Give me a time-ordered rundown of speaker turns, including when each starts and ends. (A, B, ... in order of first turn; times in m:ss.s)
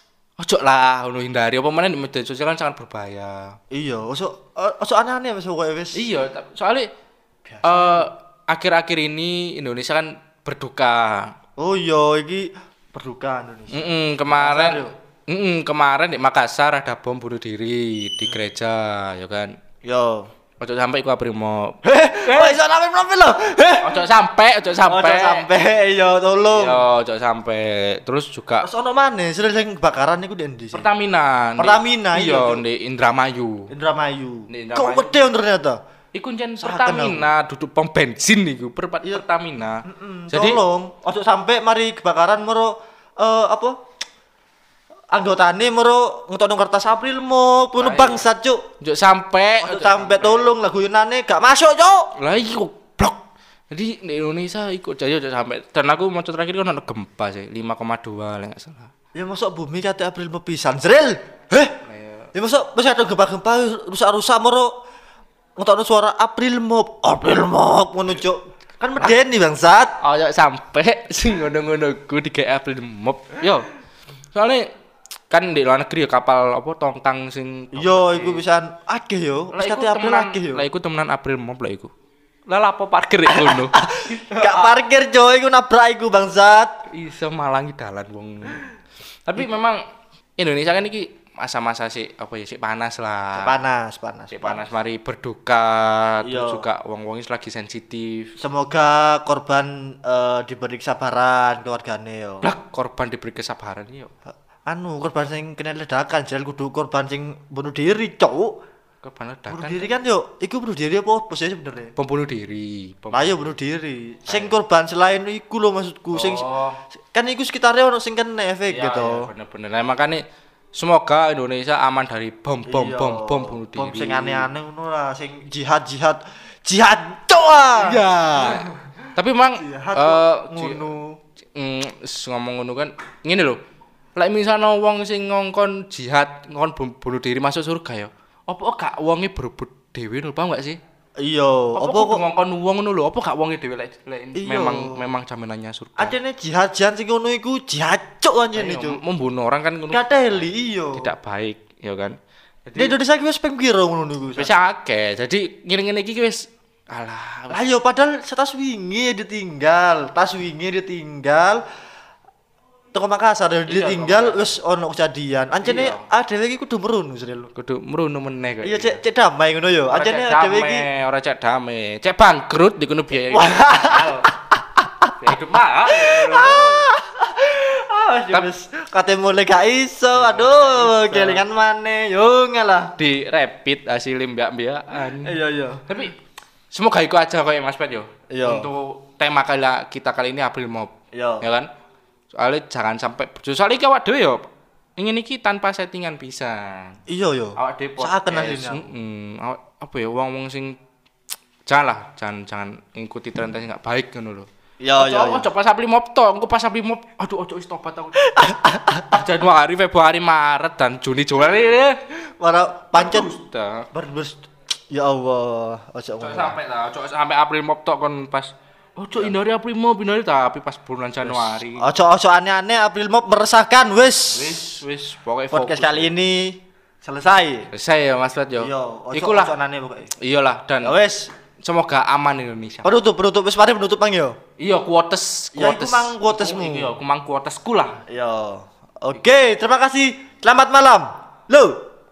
0:00.4-0:03.6 A
0:03.7-0:06.1 B
0:05.9-0:06.9 A
0:07.5-0:08.1 B
0:07.6-0:11.3 A
0:11.6-0:14.9 B
0:13.7-0:19.5 A
0:19.8-0:20.3 B
0:20.6-0:22.6 A
0:21.8-0:24.0 B
0:23.8-0:25.5 A
0:24.8-0:26.8 B
0:26.5-0:28.7 A
0:28.6-0:30.9 B
0:30.7-0:33.7 A
0:31.6-0:32.6 B
0:33.7-0:35.8 B
0:34.5-0:35.2 A
0:36.1-0:40.6 A
0:36.6-0:37.3 B
0:39.8-0:43.8 B
0:45.1-0:48.6 B
0:47.8-0:48.3 A
0:48.8-0:50.5 A
0:49.6-0:52.1 B
0:52.2-0:53.2 A
0:53.7-0:58.9 A
0:59.2-1:01.8 B
1:01.9-1:02.3 A
1:02.4-1:04.7 B
1:05.6-1:10.0 B
1:10.0-1:13.7 A
1:14.3-1:14.7 A
1:15.3-1:18.4 A
1:17.7-1:20.7 B
1:19.5-1:21.9 A
1:22.5-1:24.8 A
1:23.3-1:26.7 B
1:26.9-1:28.7 A
1:29.3-1:29.8 A
1:30.4-1:33.6 A
1:33.4-1:34.6 B
1:34.3-1:38.3 A
1:36.2-1:36.7 B
1:38.4-1:42.4 B
1:42.4-1:44.1 A
1:44.7-1:48.6 B
1:49.0-1:49.9 A
1:49.5-1:51.9 B
1:52.0-1:53.5 A
1:53.1-1:56.5 B
1:54.3-1:54.6 A
1:56.1-1:56.8 A
1:57.1-1:59.3 B
1:58.7-2:00.2 A
2:00.8-2:04.5 A
2:02.7-2:08.7 B
2:07.7-2:10.9 A
2:09.6-2:11.2 B
2:11.6-2:13.6 A
2:14.2-2:20.8 A
2:21.2-2:22.2 B
2:21.8-2:26.2 A
2:24.4-2:25.1 B
2:26.0-2:29.0 B
2:28.6-2:32.2 A
2:29.9-2:31.1 B
2:32.7-2:33.0 A
2:32.8-2:34.5 B
2:34.4-2:37.6 A
2:37.5-2:41.6 B
2:42.9-2:47.5 B
2:43.7-2:44.5 A
2:45.6-2:46.1 A
2:47.6-2:49.0 A
2:48.6-2:50.9 B
2:49.9-2:54.3 A
2:53.3-2:54.2 B
2:55.2-2:56.9 A
2:55.9-3:02.9 B
3:00.1-3:01.4 A
3:03.0-3:05.4 A
3:05.2-3:05.8 B
3:05.9-3:06.2 A
3:06.7-3:11.7 A
3:08.3-3:08.7 B
3:11.1-3:11.4 B
3:12.3-3:14.4 A
3:15.0-3:17.0 A
3:17.1-3:18.9 B
3:17.6-3:20.8 A
3:21.7-3:28.3 A
3:24.8-3:25.5 B
3:28.2-3:29.2 B
3:29.1-3:32.0 A
3:32.4-3:33.3 B
3:32.9-3:33.9 A
3:33.9-3:36.6 B
3:36.2-3:41.9 A
3:41.2-3:44.7 B
3:44.3-3:46.1 A
3:45.5-3:47.7 B
3:47.7-3:49.5 A
3:48.6-3:50.1 B
3:50.2-3:51.0 A
3:50.8-3:51.3 B
3:51.6-3:52.9 A
3:52.8-3:54.4 B
3:54.6-3:58.0 A
3:55.5-3:56.9 B
3:58.1-4:01.8 B